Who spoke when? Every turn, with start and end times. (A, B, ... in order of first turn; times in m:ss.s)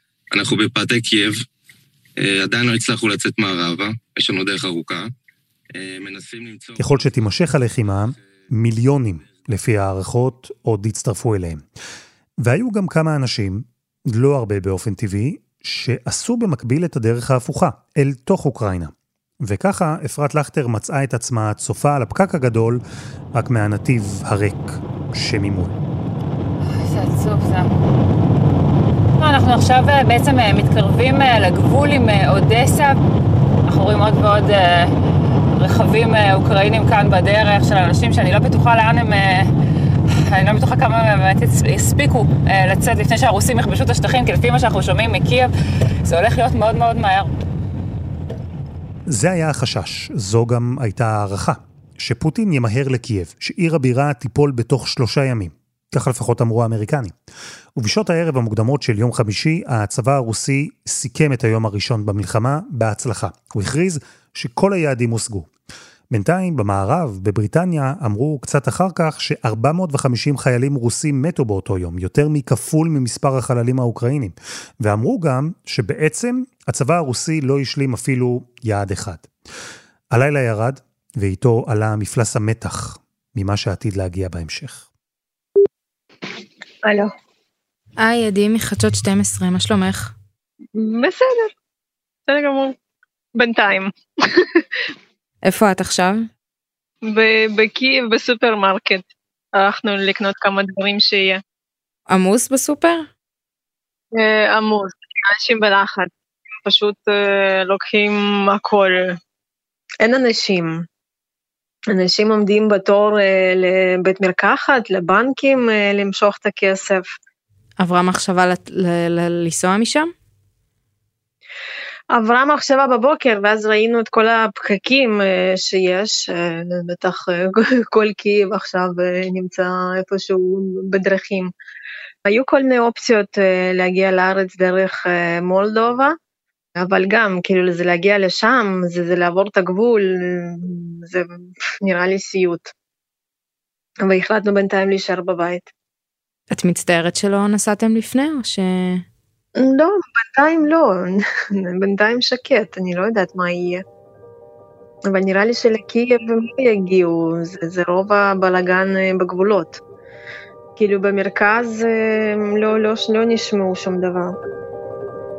0:00.4-0:01.3 A
0:02.3-0:05.0 A
0:05.8-0:06.8 A
0:06.8-0:11.6 B
0:12.4-0:22.8 B
0:23.3-0:25.8 B
0:26.7-0:27.8 C
0:29.2-0:33.0 C
0:33.7-0:35.0 C
0:35.6-0:39.5 C
0:40.1-0:45.5 C
0:46.0-0:47.3 C
0:49.1-0:57.2 B
0:57.8-1:05.5 B
1:06.1-1:19.3 B
1:20.1-1:24.8 B
1:26.8-1:27.1 D
1:28.0-1:30.1 E
1:30.8-1:31.5 D
1:32.3-1:32.8 D
1:33.4-1:34.6 D
1:35.4-1:36.3 E
1:37.1-1:41.4 D
1:42.1-1:43.1 E
1:44.1-1:46.1 D
1:46.6-1:49.2 D
1:50.0-1:50.9 D
1:51.9-1:57.1 D
1:57.8-2:00.1 E
2:02.1-2:11.5 D
2:12.3-2:16.2 D
2:16.8-2:22.7 D
2:24.0-2:25.7 D
2:26.5-2:29.0 E
2:29.6-2:33.8 D
2:35.1-2:39.8 D
2:40.8-2:44.3 D